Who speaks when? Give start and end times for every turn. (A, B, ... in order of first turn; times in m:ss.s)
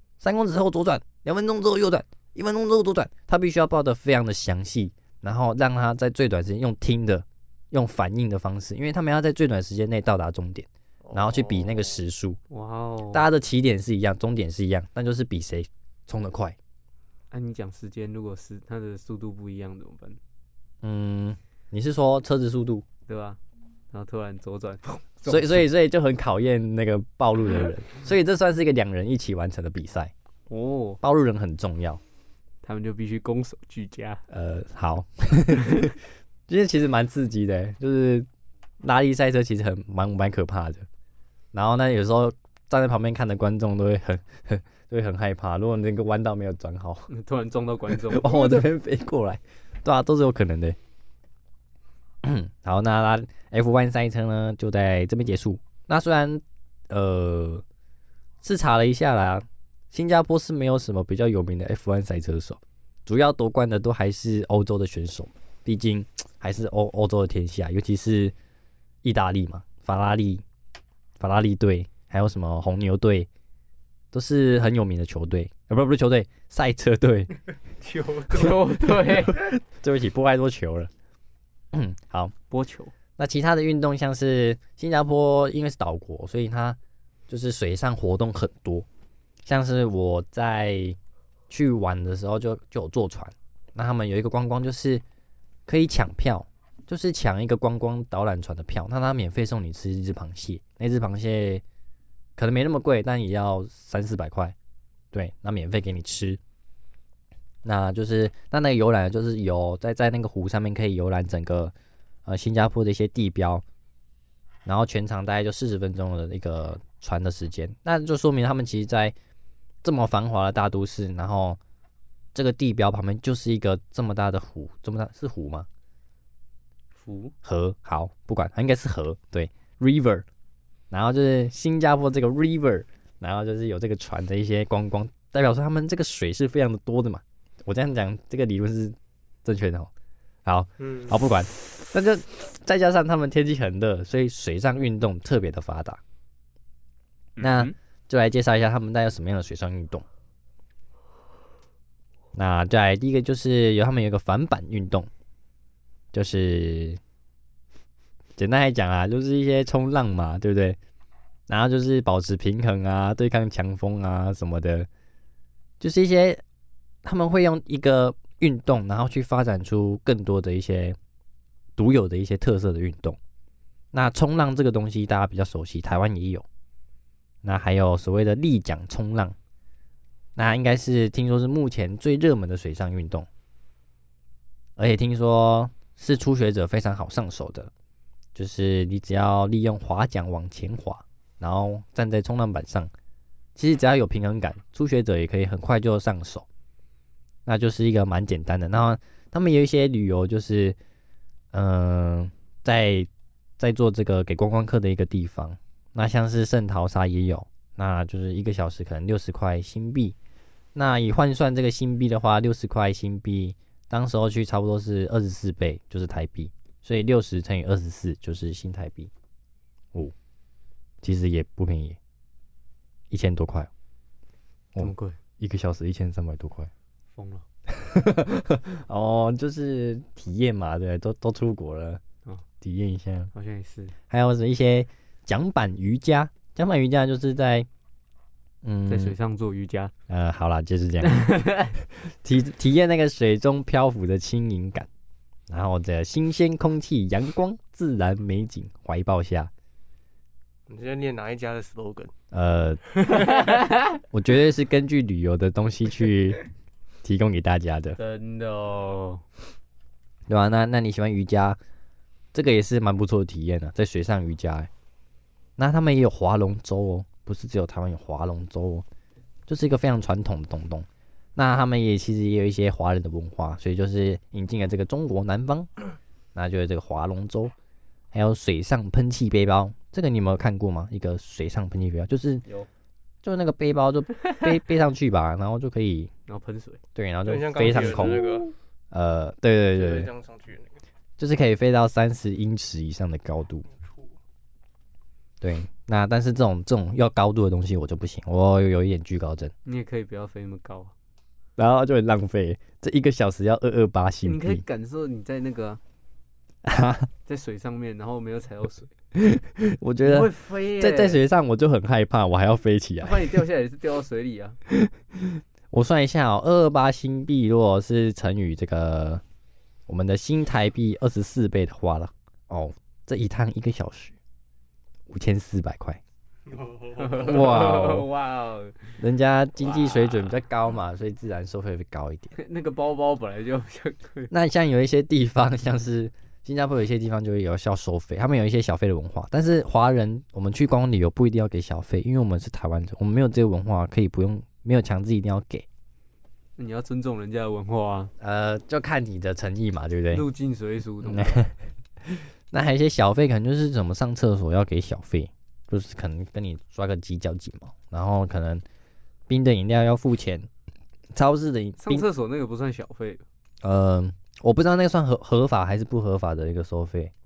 0:00.2-0:12.4 A
0:11.0-0:11.9 B
0:12.5-0:13.2 C
0:13.1-0:16.6 A
0:17.3-0:20.2 C
0:20.8-0:22.8 A
0:23.1-0:23.4 C
0:23.9-0:25.6 C
0:25.2-0:30.1 A
0:30.5-0:31.0 C
0:31.0-0:32.0 A
0:32.6-0:34.2 C
0:34.3-0:36.0 A
0:36.5-0:38.3 A
0:38.8-0:40.8 A
0:41.5-0:47.1 A
0:47.1-0:48.6 C
0:47.9-0:50.8 A
0:52.2-0:57.6 A
0:58.4-1:08.3 A
1:09.0-1:10.4 A
1:11.2-1:13.3 A
1:14.1-1:17.4 A
1:18.2-1:19.4 C
1:18.9-1:20.9 A
1:21.7-1:22.3 A
1:22.5-1:22.9 C
1:23.2-1:26.8 A
1:27.3-1:28.8 A
1:29.4-1:31.0 A
1:31.5-1:35.0 A
1:35.6-1:41.6 A
1:42.4-1:44.5 A
1:45.1-1:46.4 A
1:47.6-1:51.7 A
1:52.2-1:53.6 A
1:54.6-1:59.1 A
1:59.8-2:01.6 A
2:02.3-2:05.7 A
2:07.0-2:07.3 C
2:07.4-2:10.2 A
2:10.9-2:19.9 A
2:20.4-2:26.0 A
2:20.8-2:21.1 B
2:27.4-2:30.0 A
2:27.4-2:27.7 C
2:32.3-2:35.1 A
2:36.1-2:37.0 A
2:38.4-2:40.8 A
2:41.5-2:44.9 A
2:45.8-2:46.4 A
2:47.0-2:51.0 A
2:51.8-2:53.2 A
2:53.9-2:56.4 A
2:57.4-2:59.4 A
3:00.4-3:03.3 A
3:04.8-3:07.7 A
3:08.3-3:12.9 A
3:13.6-3:16.4 A
3:17.4-3:20.8 A
3:21.5-3:30.2 A
3:30.7-3:39.1 A
3:41.0-3:42.0 A
3:43.1-3:43.7 A
3:44.7-3:46.7 A
3:44.8-3:45.2 C
3:47.1-3:47.4 C
3:47.7-3:52.0 A
3:52.6-3:53.3 A
3:53.3-3:53.9 C
3:54.1-3:57.7 A
3:58.6-3:59.2 A
3:58.9-3:59.9 C
4:00.1-4:04.9 A
4:01.0-4:01.7 C
4:05.5-4:09.5 A
4:10.7-4:12.1 B
4:12.3-4:13.0 A
4:13.2-4:13.9 C
4:14.1-4:16.4 A
4:17.0-4:18.0 A
4:18.0-4:19.2 C
4:20.3-4:21.6 A
4:22.3-4:24.7 A
4:25.6-4:28.8 A
4:29.5-4:35.7 A
4:36.3-4:37.5 A
4:38.1-4:42.4 A
4:43.2-4:46.1 A
4:46.3-4:46.8 C
4:46.9-4:50.1 A
4:47.2-4:48.5 B
4:49.7-4:50.8 B
4:51.2-4:53.6 A
4:53.7-4:54.1 B
4:55.4-4:59.5 A
4:59.6-5:00.9 C
5:01.6-5:04.6 A
5:04.2-5:05.8 C
5:06.6-5:07.1 A
5:07.2-5:08.9 C
5:09.1-5:13.4 A
5:10.0-5:11.2 C
5:13.0-5:14.6 C
5:14.7-5:19.2 A
5:19.9-5:24.2 A
5:25.1-5:26.0 A
5:26.7-5:27.0 B
5:26.9-5:28.8 C
5:27.1-5:28.1 A
5:29.0-5:32.3 A
5:32.3-5:34.3 C
5:34.3-5:45.6 A
5:46.6-5:48.1 C
5:48.2-5:50.2 A
5:50.1-5:51.4 C
5:51.0-5:51.5 A
5:52.0-5:58.6 A
5:59.3-6:00.5 A
6:01.1-6:02.0 A
6:01.8-6:03.2 C
6:03.6-6:07.1 A